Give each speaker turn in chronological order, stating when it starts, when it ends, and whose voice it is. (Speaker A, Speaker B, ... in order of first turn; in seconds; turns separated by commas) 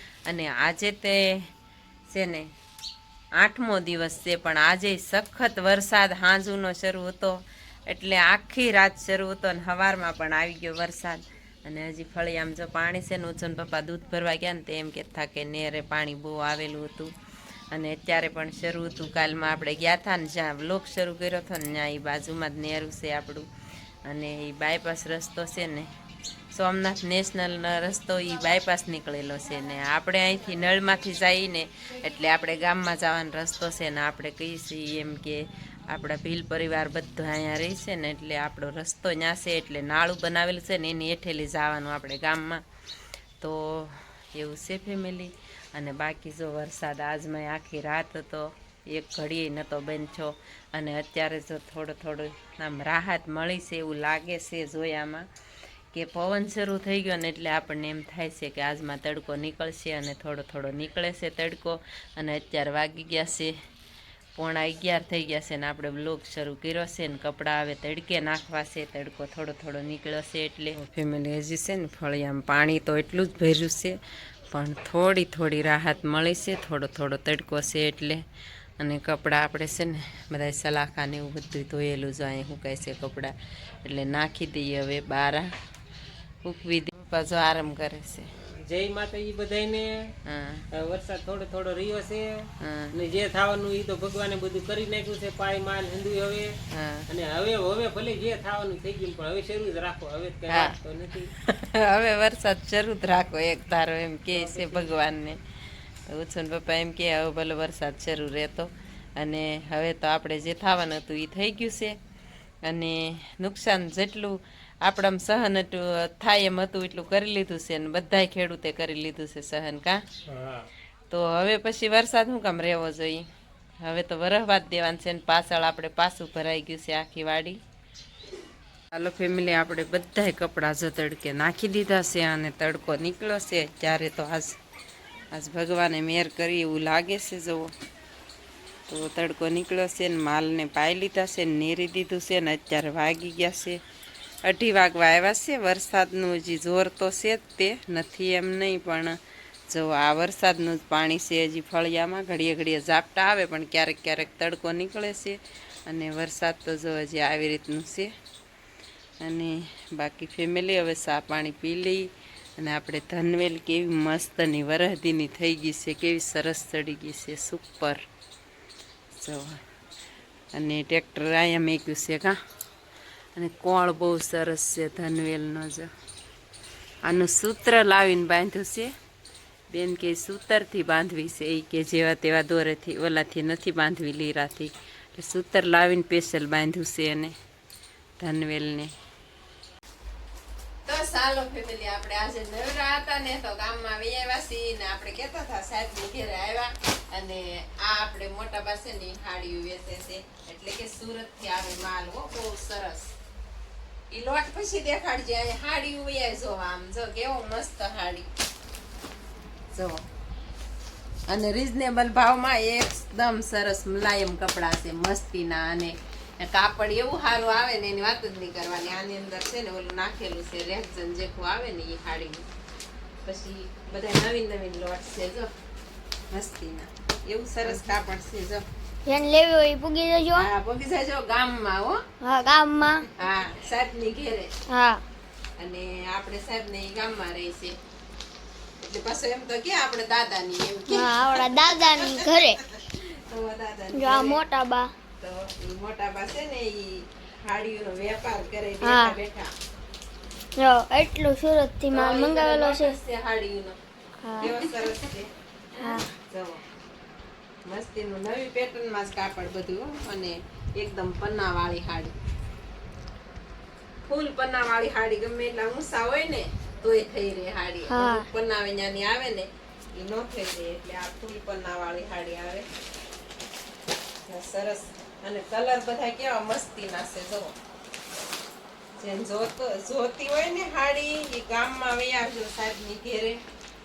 Speaker A: 0.3-1.2, Speaker A: 2.1-2.5, Speaker A: 3.4-17.1, Speaker A: 17.7-23.4, Speaker A: 24.1-25.9, Speaker A: 26.5-42.6, Speaker A: 43.4-55.3, Speaker A: 55.9-63.5, Speaker A: 64.4-74.0, Speaker A: 74.5-78.2, Speaker A: 78.8-85.5, Speaker A: 86.4-88.3, Speaker B: 88.6-90.1, Speaker A: 90.2-90.6, Speaker B: 90.7-96.5, Speaker A: 92.6-92.9, Speaker A: 96.7-97.0, Speaker B: 97.1-101.3, Speaker A: 100.5-100.7, Speaker A: 101.4-105.4, Speaker B: 104.3-104.9, Speaker A: 106.0-112.0, Speaker A: 112.6-120.0, Speaker B: 120.3-120.6, Speaker A: 121.1-123.2, Speaker A: 123.8-127.6, Speaker A: 128.9-134.6, Speaker A: 135.3-137.7, Speaker A: 138.9-143.8, Speaker A: 144.4-149.2, Speaker A: 149.7-158.1, Speaker A: 159.2-168.0, Speaker A: 169.2-169.6, Speaker A: 170.5-172.3, Speaker A: 173.3-175.9, Speaker A: 177.0-178.9, Speaker A: 179.7-187.3, Speaker A: 188.2-188.9, Speaker A: 190.8-203.1, Speaker A: 204.1-208.3, Speaker A: 209.7-210.0, Speaker A: 211.3-222.4, Speaker A: 223.2-225.5, Speaker A: 226.3-228.6, Speaker C: 229.1-230.5, Speaker A: 230.3-232.0, Speaker C: 232.2-233.1, Speaker A: 233.1-234.5, Speaker C: 234.7-235.0, Speaker A: 235.6-237.7, Speaker A: 238.8-244.4, Speaker C: 240.9-242.6, Speaker C: 243.9-244.9, Speaker A: 245.2-249.5, Speaker C: 248.8-249.2, Speaker C: 250.6-252.9, Speaker A: 251.9-253.8, Speaker C: 254.2-254.9, Speaker A: 254.4-256.6, Speaker C: 255.8-256.1, Speaker A: 257.6-262.1, Speaker A: 264.1-272.6, Speaker C: 267.9-268.3, Speaker A: 274.3-277.5, Speaker A: 279.0-283.4